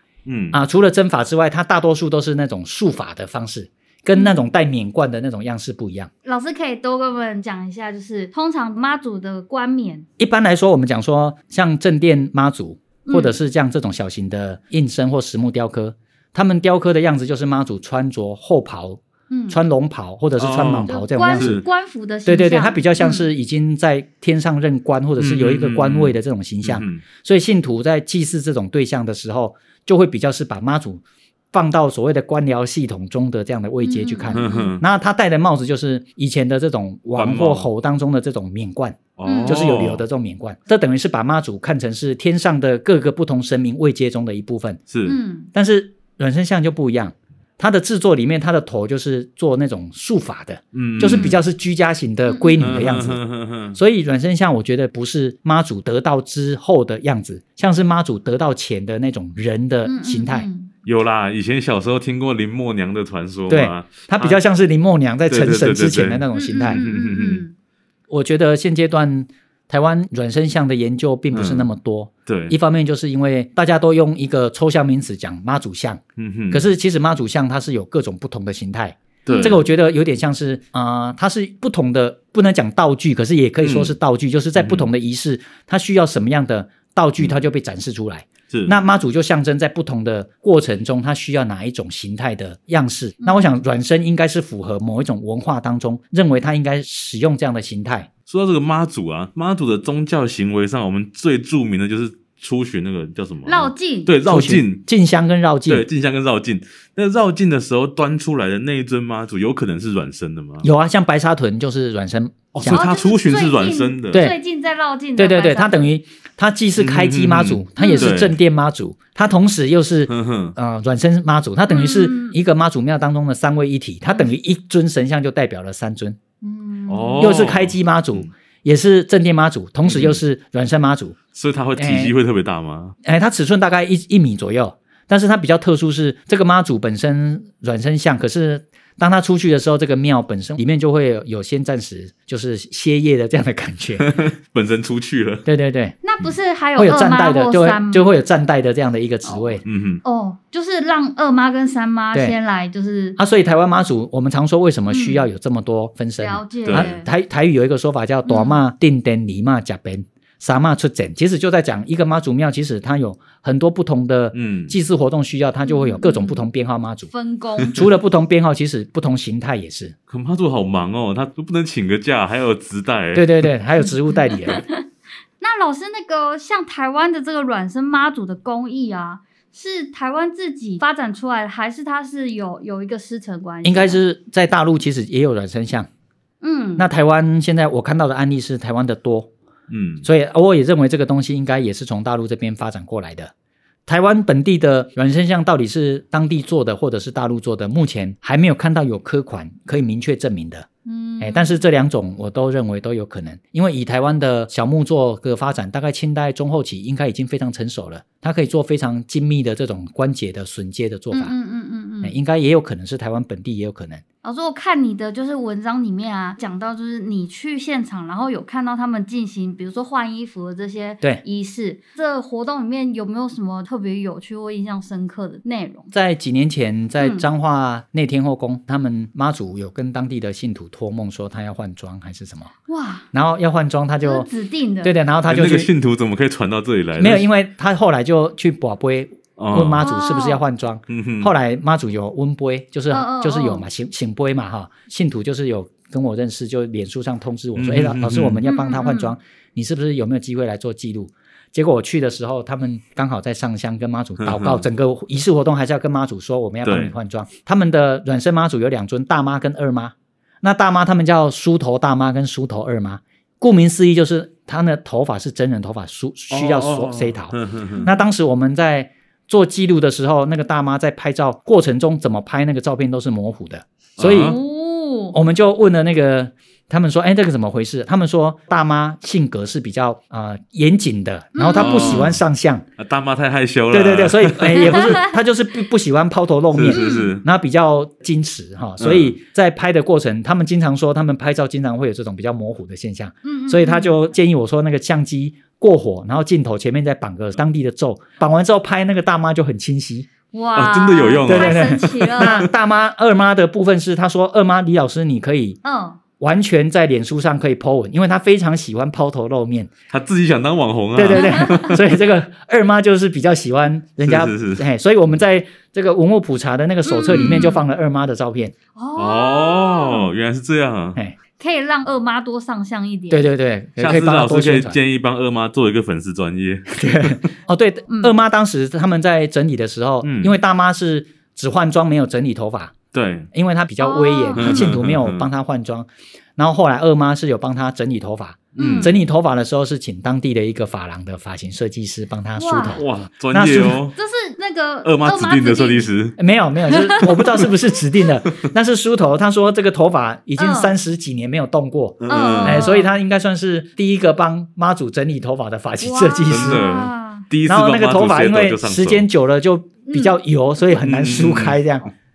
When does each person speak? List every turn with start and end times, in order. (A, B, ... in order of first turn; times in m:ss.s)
0:00.2-0:00.6 A
0:00.5-0:06.1 B
0:04.1-0:04.4 C
0:06.2-0:10.1 C
0:10.2-0:21.6 B
0:13.0-0:13.4 C
0:19.3-0:19.6 C
0:20.4-0:21.6 A
0:20.8-0:23.3 C
0:22.2-0:44.8 B
0:25.2-0:27.0 A
0:33.8-0:34.7 C
0:34.3-0:34.8 A
0:37.2-0:37.7 A
0:39.2-0:40.0 A
0:39.2-0:39.6 C
0:44.9-0:45.2 A
0:45.0-0:45.5 C
0:45.5-0:53.2 B
0:50.7-0:51.4 A
0:51.0-0:51.4 C
0:52.3-0:52.5 C
0:52.6-0:53.8 A
0:53.7-1:00.5 B
0:59.8-1:00.7 C
1:00.8-1:04.4 A
1:03.5-1:06.8 B
1:05.3-1:07.4 A
1:06.3-1:07.5 C
1:08.1-1:38.1 B
1:11.3-1:11.7 A
1:12.3-1:12.5 A
1:16.2-1:16.7 A
1:19.2-1:19.6 A
1:19.3-1:19.6 C
1:23.6-1:23.9 A
1:24.6-1:24.9 A
1:38.3-1:44.8 A
1:43.4-1:44.1 C
1:44.2-1:45.8 B
1:45.7-1:50.7 A
1:50.6-1:52.8 B
1:52.5-1:54.2 A
1:52.7-1:55.9 C
1:55.2-2:06.2 B
1:56.8-1:58.3 A
1:57.8-1:58.1 C
2:00.1-2:00.6 A
2:01.7-2:02.4 C
2:06.4-2:07.4 C
2:06.9-2:08.3 A
2:07.2-2:11.2 B
2:09.8-2:10.2 A
2:11.3-2:13.0 A
2:11.8-2:12.1 B
2:13.0-2:24.0 B
2:24.0-2:25.5 A
2:25.4-2:26.0 B
2:26.0-2:28.2 C
2:26.8-2:29.6 B
2:29.2-2:33.2 C
2:29.6-2:30.0 A
2:33.2-2:47.1 B
2:34.9-2:35.3 C
2:36.2-2:37.1 C
2:36.6-2:36.9 A
2:38.2-2:38.6 C
2:44.3-2:44.8 A
2:45.6-2:46.4 C
2:47.1-2:47.8 C
2:47.7-2:49.9 B
2:50.1-2:53.5 A
2:53.1-2:54.6 B
2:54.3-2:54.8 C
2:55.4-3:04.0 C
3:03.6-3:05.9 B
3:06.4-3:06.9 C
3:06.8-3:09.3 B
3:09.7-3:10.0 A
3:10.0-3:13.3 B
3:13.9-3:20.7 B
3:20.8-3:21.6 C
3:21.2-3:31.3 B
3:31.1-3:32.2 C
3:32.0-3:34.0 B
3:34.2-3:45.9 C
3:45.9-3:52.5 B
3:47.0-3:47.2 C
3:52.7-3:53.1 C
3:53.1-3:54.3 B
3:54.0-3:55.0 C
3:54.8-3:55.7 B
3:55.3-3:57.3 A
3:57.0-4:34.4 B
3:59.4-3:59.8 A
3:59.8-4:00.4 C
4:00.9-4:01.3 A
4:02.9-4:03.6 C
4:07.6-4:08.4 A
4:08.4-4:09.1 C
4:14.2-4:14.6 A
4:16.6-4:16.9 A
4:26.3-4:27.8 A
4:27.8-4:28.0 C
4:34.0-4:34.4 A
4:34.1-4:35.2 C
4:35.1-4:42.6 B
4:41.3-4:42.1 C
4:41.5-4:42.2 A
4:42.8-4:45.0 A
4:43.7-5:00.1 B
4:44.8-4:45.1 C
4:46.5-4:47.2 A
4:46.7-4:47.1 C
4:48.8-4:49.1 A
4:53.2-4:53.9 C
5:00.3-5:02.5 C
5:00.5-5:02.5 A
5:01.2-5:05.6 B
5:05.6-5:06.0 C
5:06.2-5:09.7 B
5:09.9-5:11.9 A
5:10.9-5:18.5 B
5:11.1-5:11.7 C
5:14.0-5:14.6 A
5:16.8-5:17.6 C
5:17.1-5:17.5 A
5:18.7-5:20.1 C
5:19.0-5:21.0 A
5:21.4-5:23.3 C
5:23.1-5:24.8 B
5:23.8-5:27.2 A
5:26.7-5:32.8 B
5:27.9-5:28.1 C
5:30.0-5:30.3 A
5:32.9-5:33.3 A
5:33.3-5:43.8 B
5:33.8-5:34.6 C
5:34.4-5:35.2 A
5:38.6-5:38.9 A
5:38.6-5:38.9 C
5:42.4-5:42.8 C
5:42.7-5:44.0 A
5:43.9-5:45.9 C
5:44.8-5:46.2 A
5:46.2-5:56.7 B
5:46.7-5:47.4 C
5:50.4-5:50.7 C
5:52.0-5:52.7 A
5:52.1-5:52.9 C
5:55.8-5:57.2 C
5:56.3-5:59.1 A
5:57.4-6:01.8 B
5:59.9-6:00.2 C
6:00.7-6:01.6 A